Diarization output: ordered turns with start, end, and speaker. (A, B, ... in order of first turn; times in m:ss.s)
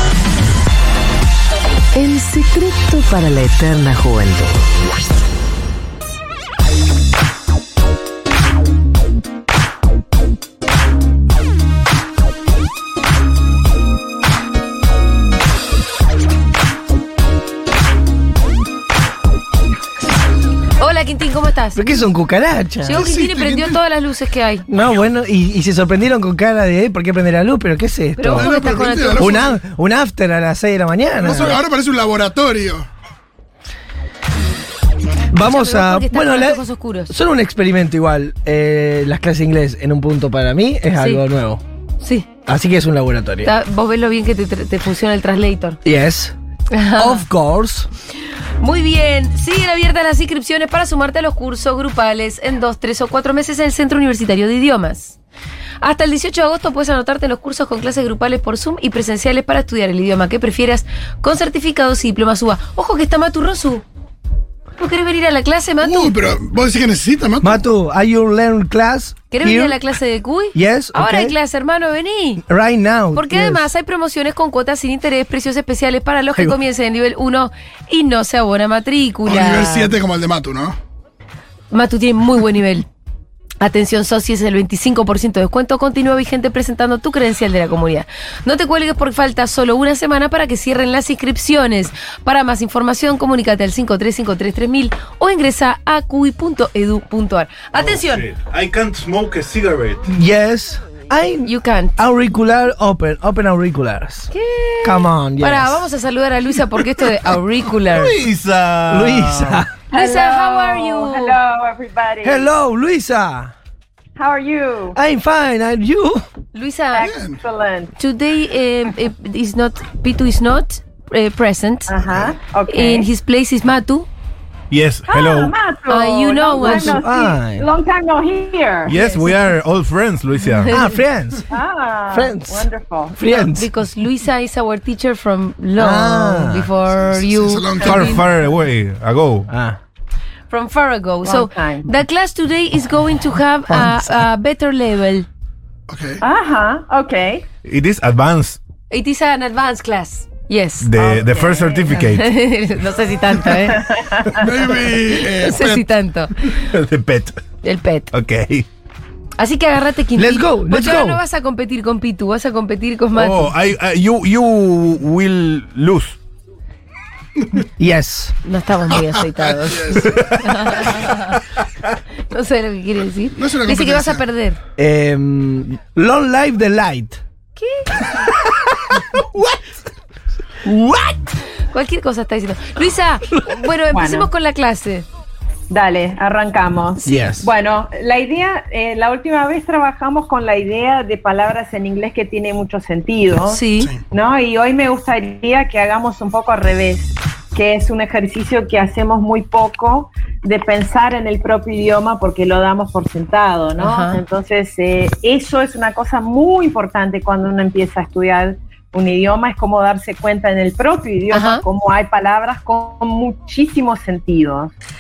0:02.0-0:04.6 A
0:20.8-0:21.8 B
0:21.8-0:23.0 C
0:22.9-0:23.8 D
0:22.9-0:24.7 B
0:24.7-0:28.5 C
0:28.2-0:29.5 B
0:28.3-0:29.6 D
0:29.2-0:31.6 C
0:31.2-0:32.9 D
0:35.3-0:41.6 C
0:35.3-0:37.1 B
0:41.0-0:41.2 B
0:42.0-0:42.3 B
0:42.5-0:43.5 C
0:43.4-0:45.8 B
0:45.8-0:46.3 C
0:46.7-0:47.3 B
0:47.0-0:47.9 C
0:48.6-0:55.2 B
0:55.8-1:03.8 B
1:04.8-1:06.2 B
1:05.8-1:07.6 D
1:07.4-1:09.8 C
1:09.3-1:12.4 B
1:10.5-1:11.4 C
1:12.4-1:13.7 C
1:13.1-1:20.0 B
1:16.3-1:16.6 C
1:19.2-1:20.8 D
1:21.7-1:22.8 B
1:23.6-1:38.3 B
1:37.8-1:40.0 E
1:40.1-1:44.3 C
1:41.4-1:42.0 B
1:44.3-1:48.1 B
1:44.8-1:45.8 C
1:47.9-1:49.7 E
1:48.9-1:49.7 C
1:49.9-1:52.5 F
1:49.9-1:51.4 B
1:52.2-1:53.5 C
1:54.2-1:55.0 F
1:54.9-1:56.2 C
1:56.5-1:57.1 B
1:56.9-1:57.9 F
1:57.0-1:57.4 D
1:58.0-2:01.9 B
2:01.9-2:03.1 F
2:02.0-2:02.3 D
2:02.7-2:04.1 B
2:04.7-2:05.5 E
2:05.1-2:09.0 F
2:05.9-2:07.0 B
2:06.6-2:07.7 C
2:08.8-2:10.7 E
2:08.9-2:09.4 B
2:10.6-2:10.9 B
2:10.7-2:11.4 C
2:11.5-2:13.2 F
2:12.1-2:13.7 C
2:13.2-2:18.2 B
2:15.8-2:16.7 C
2:16.9-2:18.2 D
2:17.8-2:18.1 F
2:17.8-2:19.5 E
2:19.5-2:19.8 C
2:20.5-2:25.3 B
2:21.2-2:21.9 F
2:23.7-2:24.2 C
2:25.9-2:26.2 D
2:26.2-2:27.4 F
2:27.6-2:28.6 E
2:28.9-2:30.9 B
2:30.8-2:32.3 E
2:30.9-2:32.0 F
2:31.9-2:33.9 B
2:33.7-2:34.4 F
2:34.3-2:35.9 D
2:35.3-2:36.5 B
2:36.4-2:37.4 E
2:37.6-2:38.1 B
2:38.1-2:38.7 E
2:39.4-2:43.5 B
2:40.2-2:41.2 C
2:43.1-2:46.2 E
2:47.8-2:48.3 C
2:48.4-2:51.4 B
2:48.9-2:50.1 D
2:50.1-2:50.9 E
2:52.3-2:54.6 B
2:53.4-2:54.2 D
2:54.8-2:57.2 C
2:57.5-2:58.3 B
2:58.3-2:59.4 C
3:00.8-3:01.2 C
3:01.7-3:05.1 B
3:03.9-3:04.3 F
3:05.7-3:34.7 F
3:07.0-3:07.5 C
3:13.4-3:13.9 B
3:23.8-3:24.2 B
3:31.3-3:31.6 B